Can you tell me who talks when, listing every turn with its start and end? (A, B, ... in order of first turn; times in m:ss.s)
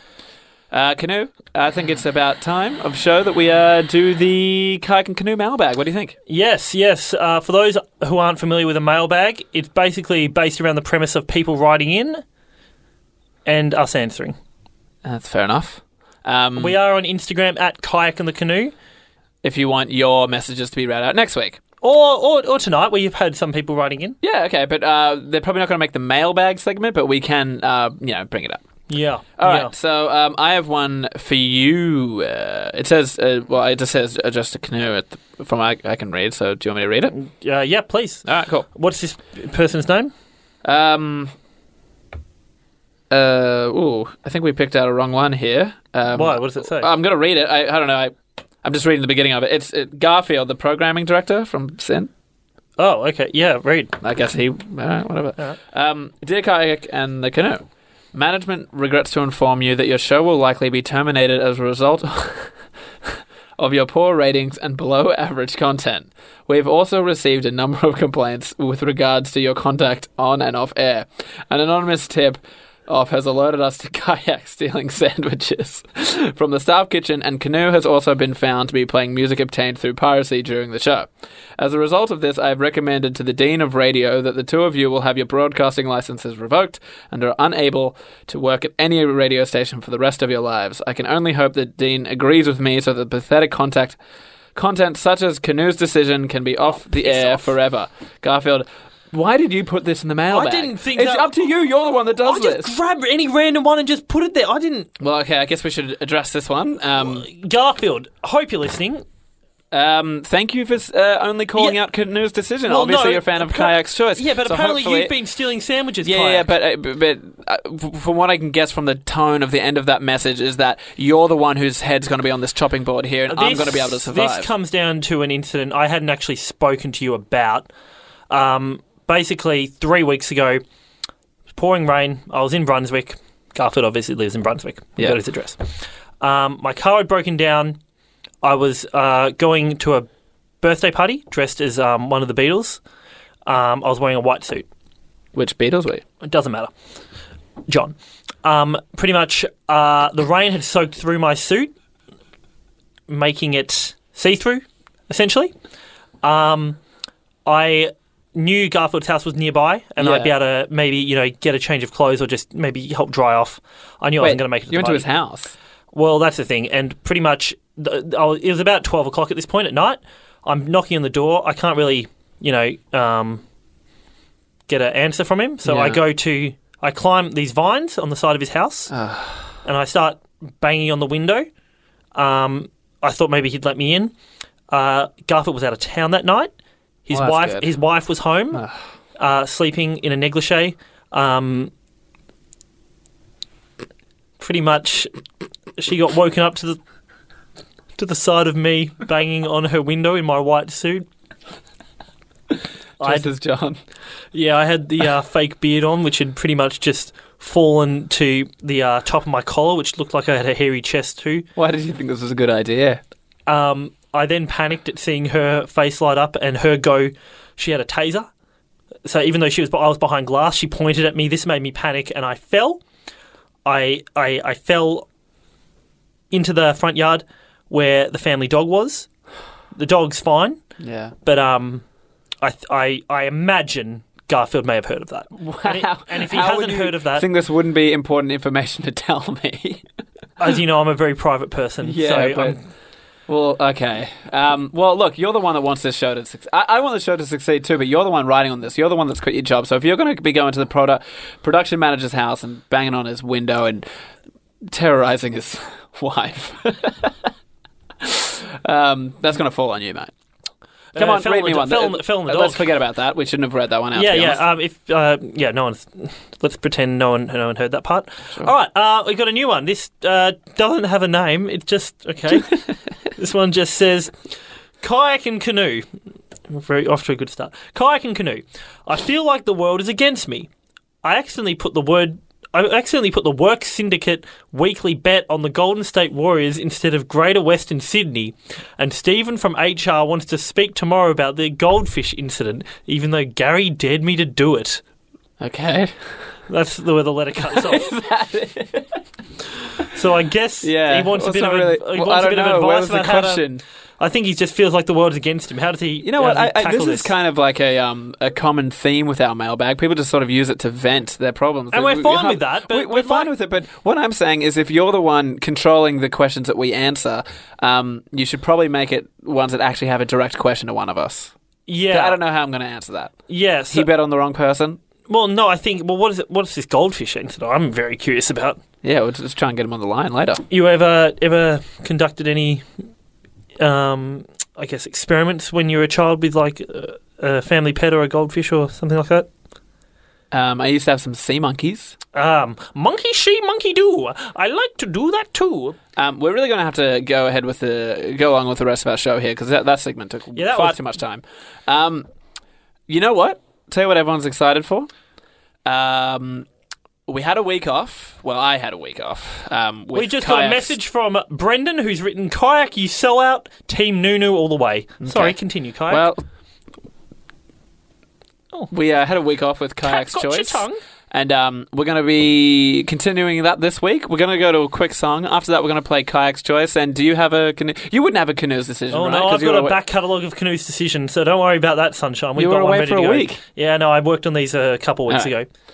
0:00.7-0:06.2 A
0:06.3-0:12.2 B
0:13.4-0:14.4 B
0:15.0-0:16.8 A
0:16.6-0:18.7 B
0:19.4-0:21.6 A
0:21.8-0:24.2 B
0:24.2-0:28.6 A
0:28.9-0:29.7 B
0:29.4-0:37.1 A
0:37.1-0:40.1 B
0:38.2-0:38.7 A
0:40.6-0:41.3 A
0:43.1-0:52.1 A
0:46.1-0:46.9 B
0:52.8-0:53.9 B
0:54.0-1:02.5 A
1:03.1-1:34.0 A
1:34.5-1:42.8 A
1:36.9-1:37.5 B
1:40.3-1:41.3 B
1:42.2-1:44.9 B
1:45.0-1:47.3 A
1:47.0-1:49.0 B
1:49.7-1:55.1 A
1:52.7-1:56.5 B
1:56.0-2:04.5 A
2:03.3-2:07.7 B
2:08.3-2:10.6 B
2:11.5-2:15.6 B
2:16.2-2:17.8 B
2:18.4-2:20.1 B
2:20.6-2:22.8 B
2:23.4-2:24.6 B
2:25.3-2:26.0 A
2:26.2-2:26.7 B
2:27.7-2:31.7 B
2:33.1-2:35.5 B
2:36.2-2:36.8 B
2:37.4-2:45.1 B
2:40.0-2:40.3 A
2:44.2-2:45.5 A
2:45.9-2:53.4 B
2:54.7-2:58.9 B
2:55.6-2:56.0 A
2:58.9-2:59.5 A
2:59.6-3:01.5 B
3:02.1-3:04.1 B
3:04.7-3:06.5 B
3:07.1-3:08.6 B
3:07.1-3:07.7 A
3:09.2-3:11.7 B
3:14.4-3:15.1 B
3:15.8-3:16.8 B
3:18.0-3:21.0 B
3:23.0-3:23.8 A
3:23.0-3:23.3 B
3:24.3-3:31.4 B
3:31.6-3:33.0 A
3:33.5-3:38.3 B
3:39.0-3:42.8 B
3:43.6-3:45.0 B
3:46.3-3:49.1 B
3:49.7-3:50.6 B
3:50.8-3:51.1 A
3:51.2-3:51.8 B
3:52.4-3:57.2 B
3:55.4-3:59.8 A
4:00.4-4:02.6 B
4:01.8-4:02.6 A
4:03.3-4:13.8 A
4:14.7-4:17.1 A
4:18.0-4:20.1 A
4:20.9-4:24.4 A
4:21.0-4:22.6 B
4:23.9-4:32.6 B
4:33.2-4:34.1 B
4:34.8-4:35.8 B
4:36.5-4:40.5 B
4:41.0-4:54.8 B
4:55.4-4:56.4 A
4:56.5-4:57.9 B
4:57.5-4:59.0 A
4:59.9-5:03.4 B
5:00.6-5:03.6 A
5:04.0-5:07.1 B
5:06.0-5:21.3 A
5:11.7-5:13.3 B
5:21.7-5:22.2 B
5:21.9-5:23.2 A
5:23.3-5:23.9 B
5:23.7-5:24.8 A
5:25.1-5:28.6 B
5:28.8-5:30.4 A
5:30.5-5:32.6 B
5:33.6-5:39.3 B
5:40.3-5:42.0 A
5:42.1-5:45.8 B
5:46.0-5:52.1 A
5:50.3-5:50.8 B
5:52.9-5:54.9 A
5:55.6-5:56.4 A
5:57.1-6:00.8 A
5:59.9-6:06.0 B
6:05.0-6:05.4 A
6:05.9-6:06.2 A
6:08.7-6:19.8 A
6:09.8-6:10.8 B
6:18.9-6:25.5 B
6:22.4-6:23.4 A
6:25.1-6:25.3 A